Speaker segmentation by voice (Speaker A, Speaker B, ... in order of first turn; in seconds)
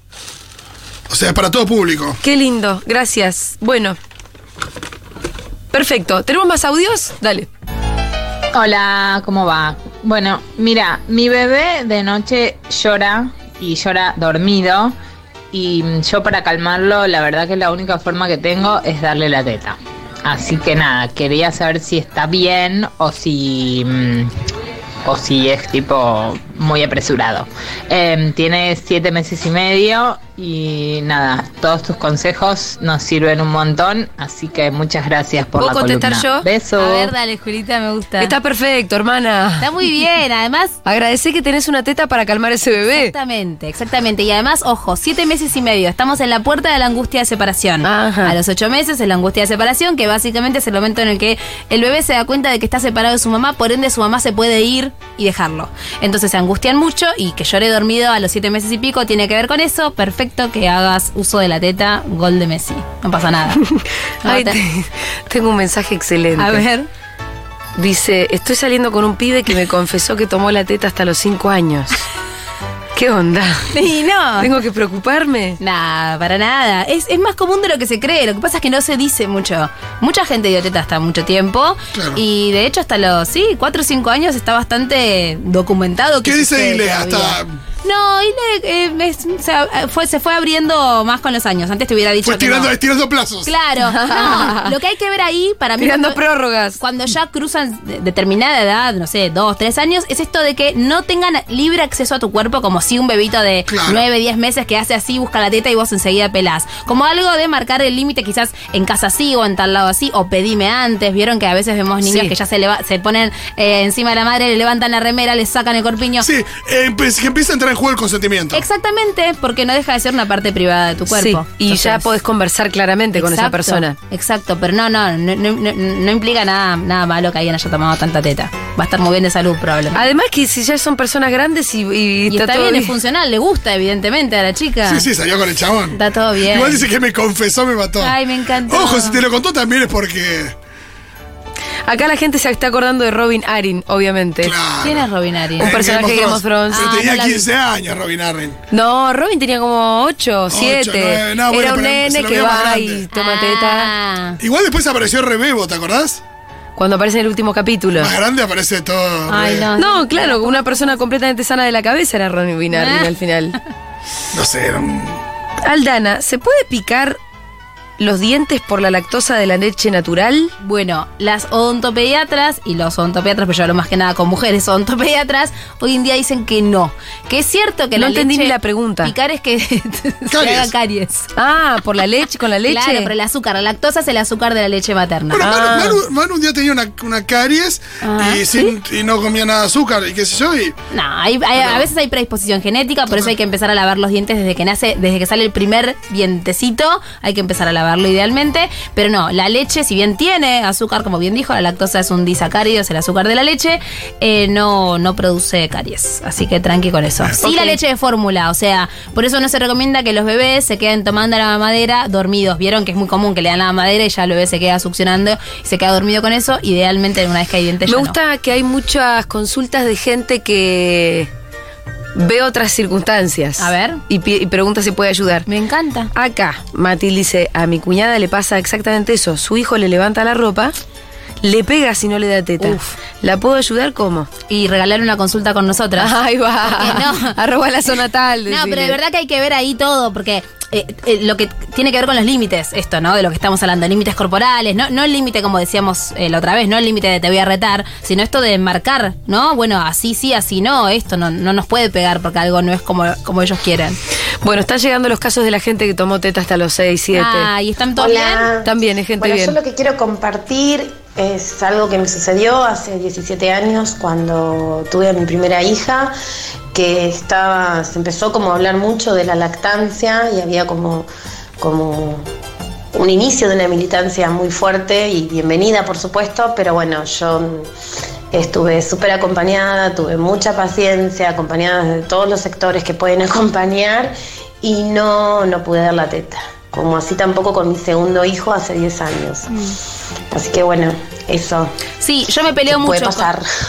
Speaker A: 1.1-2.2, 81.9-82.2, 86.2-87.6, 92.2-93.5, 103.7-104.0, 116.2-118.7, 134.8-140.6, 144.4-148.6, 150.5-153.1, 154.4-156.2, 158.0-159.7, 164.3-165.2, 180.3-180.7, 185.3-190.8, 191.6-191.9
Speaker B: 2.2-4.0, 5.7-7.5, 35.5-36.5, 38.2-39.8, 40.9-43.1, 47.8-48.4, 63.6-66.6, 67.8-72.0, 73.0-73.8, 74.4-75.6, 93.8-94.8, 95.8-96.8, 112.0-112.3, 121.1-124.0, 129.9-132.9, 141.9-144.6, 145.6-147.0, 148.7-153.9, 156.8-158.1, 159.8-163.6, 165.6-167.2, 168.0-170.5, 178.0-179.1, 181.4-183.1, 185.4-186.0, 207.4-207.8, 217.9-221.3, 222.2-225.5, 226.2-230.8, 231.4-234.3, 236.0-239.0, 254.4-257.5, 258.6-259.6
Speaker C: 8.5-15.0, 15.5-24.3, 25.1-37.1
Speaker D: 36.8-38.4, 39.6-40.8, 42.9-63.6, 64.2-64.6, 66.4-66.9, 73.7-74.5, 75.6-92.7, 93.5-96.2, 96.8-116.3, 118.5-122.1, 123.2-130.0, 132.3-135.1, 135.9-136.9, 138.0-139.2, 144.8-145.8, 146.7-147.5, 153.1-154.4, 159.3-161.0, 162.7-163.1, 170.6-181.3, 182.7-185.5, 188.0-188.7, 190.9-218.2, 223.6-224.0, 225.5-226.1, 232.6-232.9, 234.5-237.4, 238.5-254.0, 257.1-258.5, 289.5-289.8, 292.0-293.3
Speaker E: 258.0-266.1, 266.7-271.1, 271.6-272.2, 272.9-277.7, 278.3-289.5, 290.3-291.7, 292.7-293.5